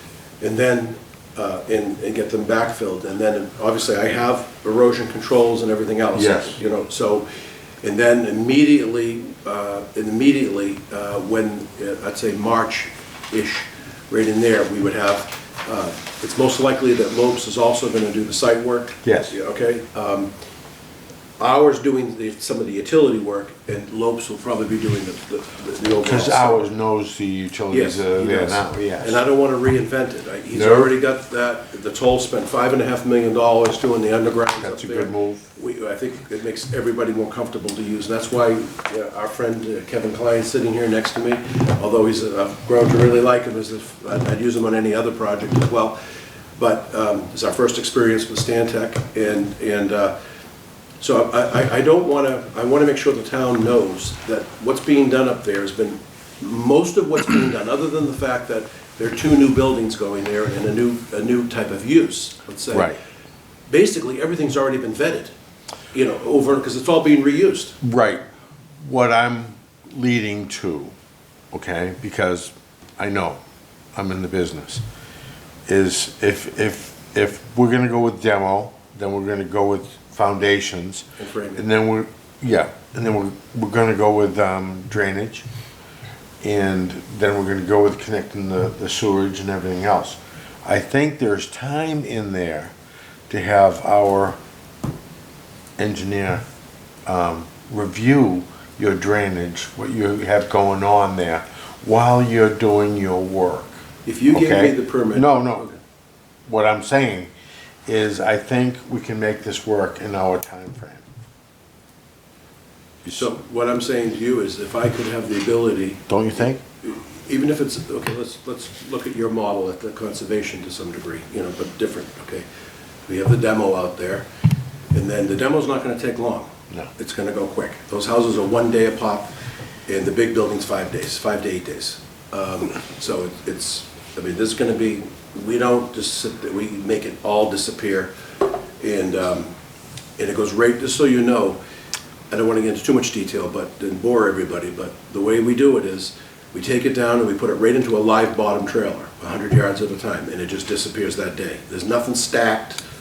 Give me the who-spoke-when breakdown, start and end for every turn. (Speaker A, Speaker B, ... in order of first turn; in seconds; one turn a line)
Speaker A: 0.4-7.3
Speaker B: 6.1-6.6
Speaker A: 7.8-20.3
Speaker B: 19.0-19.3
Speaker A: 21.4-26.7
Speaker B: 26.0-29.2
Speaker A: 27.7-46.0
Speaker B: 30.5-30.9
Speaker B: 34.6-35.5
Speaker A: 46.5-50.2
Speaker A: 51.0-63.0
Speaker B: 62.7-63.0
Speaker A: 63.7-65.3
Speaker A: 65.9-67.8
Speaker B: 67.8-68.2
Speaker B: 68.8-70.9
Speaker B: 71.5-73.4
Speaker B: 74.0-74.8
Speaker B: 75.7-81.0
Speaker A: 81.2-81.6
Speaker B: 81.6-85.5
Speaker B: 86.4-92.7
Speaker B: 93.3-94.4
Speaker B: 95.8-96.4
Speaker B: 97.1-103.8
Speaker A: 104.0-105.8
Speaker B: 104.3-105.7
Speaker B: 106.5-107.3
Speaker B: 107.9-111.0
Speaker A: 113.1-116.1
Speaker B: 116.1-116.6
Speaker A: 116.8-122.5
Speaker A: 123.1-124.3
Speaker A: 124.9-129.3
Speaker A: 129.9-138.1
Speaker A: 138.8-139.5
Speaker A: 140.2-141.6
Speaker A: 142.3-152.8